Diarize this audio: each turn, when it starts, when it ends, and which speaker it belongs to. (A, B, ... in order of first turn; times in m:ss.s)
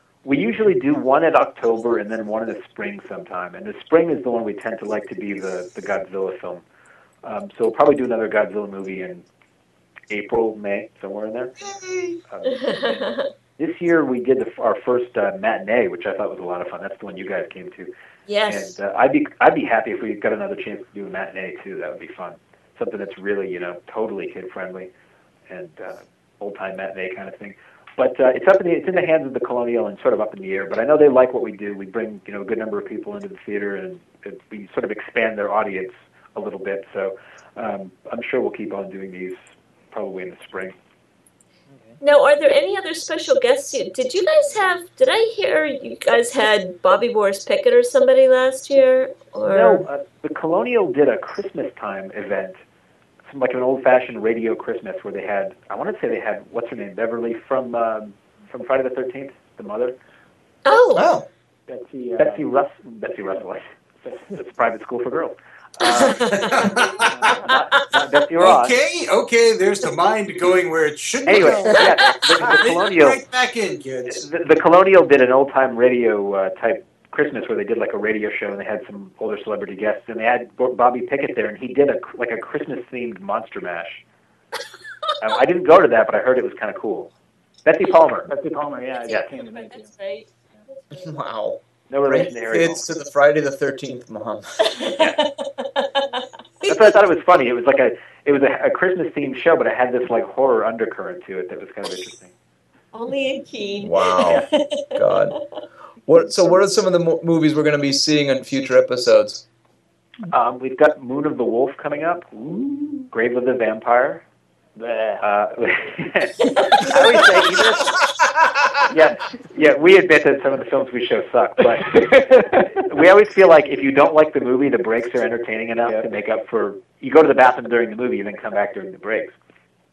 0:00.2-0:06.6 A
0:07.2-0:09.2 A
0:10.1-0:11.5 A
0:11.7-0:12.2 B
0:12.3-0:13.0 A
0:12.4-0:13.3 C
0:13.6-0:17.9 A
0:18.3-0:18.8 C
0:18.5-0:24.9 A
0:25.5-0:39.4 A
0:39.9-0:40.7 A
0:42.0-0:49.8 C
0:49.5-0:52.6 A
0:53.2-1:00.0 A
1:00.6-1:01.1 C
1:00.9-1:01.3 B
1:01.7-1:02.4 D
1:02.2-1:03.6 A
1:04.0-1:04.3 D
1:04.3-1:06.6 A
1:06.0-1:06.7 C
1:06.2-1:07.3 E
1:07.0-1:07.5 D
1:07.2-1:08.8 A
1:08.4-1:14.2 E
1:11.2-1:13.2 A
1:11.7-1:12.3 C
1:14.1-1:24.0 A
1:25.2-1:27.1 A
1:27.6-1:28.3 A
1:28.3-1:29.9 D
1:29.1-1:31.2 C
1:30.9-1:34.5 B
1:31.9-1:32.9 A
1:34.6-1:36.9 C
1:34.9-1:35.2 A
1:36.6-1:42.3 A
1:42.9-1:45.4 C
1:43.8-1:45.4 B
1:46.0-1:49.4 B
1:50.3-1:52.3 A
1:52.3-1:53.1 D
1:53.1-1:54.2 A
1:54.8-1:55.2 D
1:55.2-1:58.0 A
1:58.9-2:09.4 A